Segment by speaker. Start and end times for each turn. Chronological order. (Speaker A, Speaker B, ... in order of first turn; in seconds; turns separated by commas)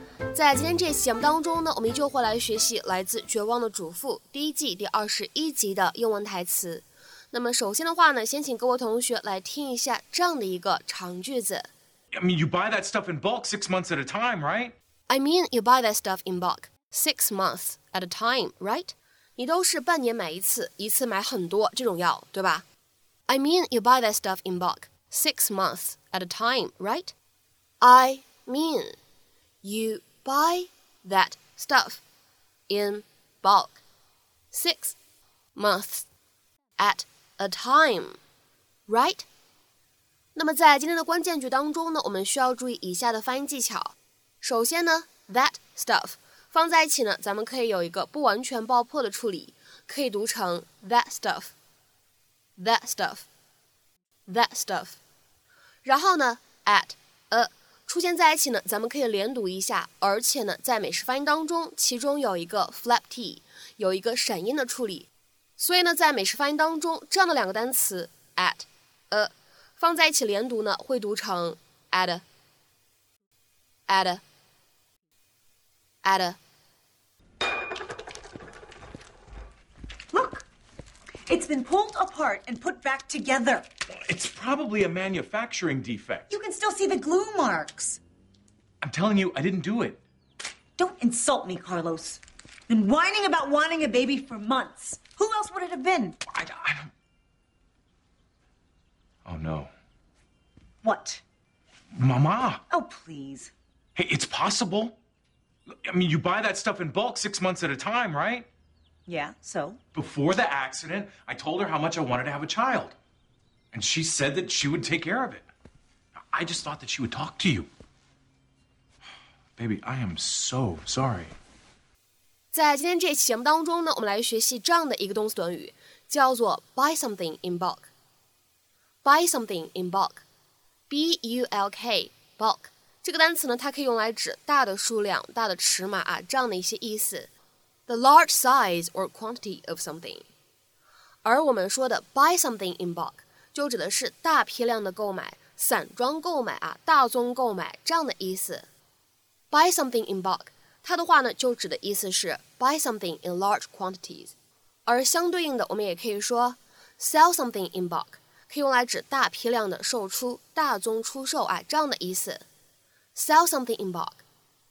Speaker A: 0.3-11.7, Speaker B: 12.1-14.7, Speaker A: 15.1-22.6, Speaker A: 23.3-27.1, Speaker A: 27.8-29.0, Speaker A: 29.6-32.0, Speaker A: 32.7-33.8, Speaker A: 34.5-35.0, Speaker A: 35.5-36.1, Speaker A: 36.8-38.2, Speaker A: 38.9-39.3, Speaker A: 40.3-51.5, Speaker A: 52.6-53.3, Speaker A: 54.3-55.0, Speaker A: 55.8-72.2, Speaker A: 73.9-74.2, Speaker A: 76.0-76.4, Speaker C: 80.1-80.5, Speaker C: 81.3-83.7, Speaker B: 83.9-86.3, Speaker C: 86.3-88.0, Speaker B: 88.8-90.0, Speaker C: 90.8-96.2, Speaker B: 96.3-96.9, Speaker B: 99.2-99.7, Speaker C: 100.8-101.2, Speaker B: 102.0-102.6, Speaker C: 102.7-103.5, Speaker B: 104.0-105.0, Speaker B: 105.8-108.5, Speaker C: 109.1-109.8, Speaker B: 109.9-113.0, Speaker B: 113.7-115.5, Speaker B: 116.3-117.7, Speaker B: 119.6-121.3, Speaker A: 122.5-127.9, Speaker A: 129.0-130.2, Speaker A: 130.9-137.3, Speaker A: 137.9-140.3, Speaker A: 141.2-148.7, Speaker A: 149.5-154.3, Speaker A: 154.8-162.4, Speaker A: 163.1-164.2